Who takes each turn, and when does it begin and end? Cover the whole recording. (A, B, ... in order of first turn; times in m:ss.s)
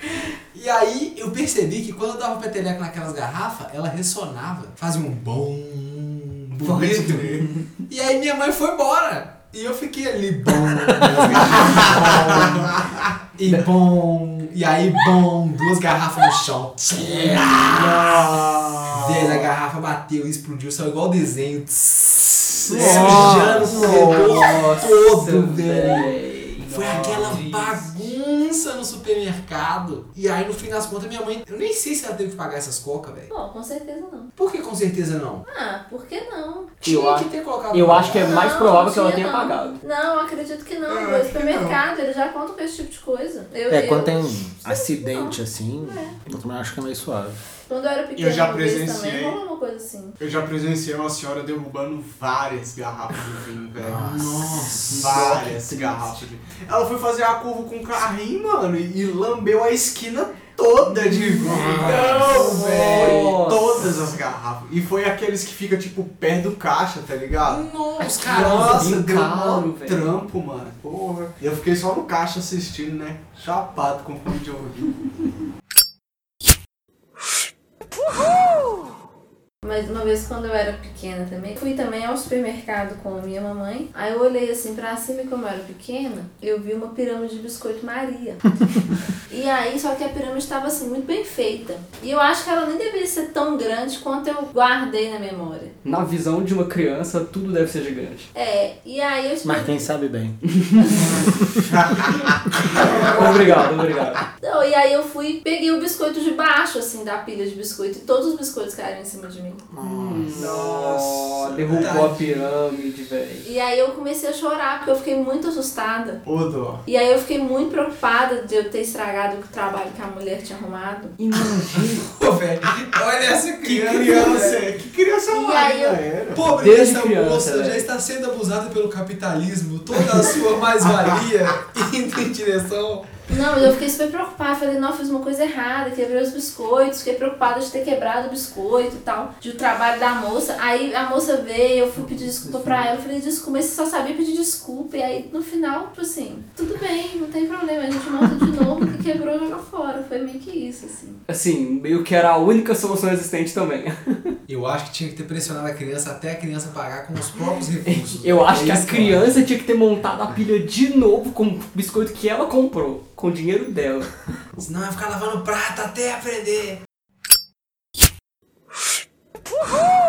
0:00.3-0:12.7 A
0:06.5-0:07.4 B
0:11.1-0:13.2 B
0:13.4-0:18.0 A
0:17.0-0:18.0 C
0:17.5-0:19.5 B
0:18.9-0:33.3 A
0:22.7-0:24.0 B
0:22.8-0:24.5 C
0:22.8-0:23.4 D
0:24.6-0:26.9 D
0:26.6-0:27.9 B
0:33.3-0:34.3 E
0:34.4-0:35.4 A
0:35.4-0:36.9 E
0:36.8-0:38.4 A
0:36.8-0:39.8 D
0:38.2-0:46.2 E
0:40.9-0:41.8 B
0:43.7-0:47.4 C
0:47.7-0:50.2 E
0:48.2-0:49.4 B
0:50.2-1:07.7 B
0:53.8-0:55.1 A
0:54.6-0:56.3 D
1:01.2-1:01.7 D
1:01.5-1:02.3 C
1:01.7-1:03.2 A
1:02.3-1:03.9 D
1:07.4-1:09.7 A
1:08.0-1:10.1 D
1:08.2-1:15.0 B
1:19.6-1:28.4 E
1:29.3-1:35.7 E
1:35.8-1:38.3 D
1:38.3-1:39.9 E
1:39.4-1:40.4 C
1:40.6-1:41.0 D
1:40.8-1:41.2 E
1:41.0-1:41.3 C
1:41.6-1:43.5 B
1:43.1-1:44.2 D
1:44.4-1:49.6 E
1:49.8-1:53.5 D
1:50.3-1:52.2 B
1:51.7-1:52.3 A
1:53.4-1:56.2 E
1:56.2-1:56.8 B
1:56.8-2:01.1 E
2:01.2-2:02.1 D
2:01.9-2:04.7 A
2:03.6-2:06.5 B
2:05.3-2:06.0 E
2:06.3-2:13.1 A
2:06.5-2:07.9 D
2:10.8-2:11.2 B
2:13.3-2:31.2 E
2:22.0-2:22.8 D
2:31.3-2:34.3 D
2:34.5-2:39.4 A
2:37.8-2:44.1 D
2:44.6-2:46.8 A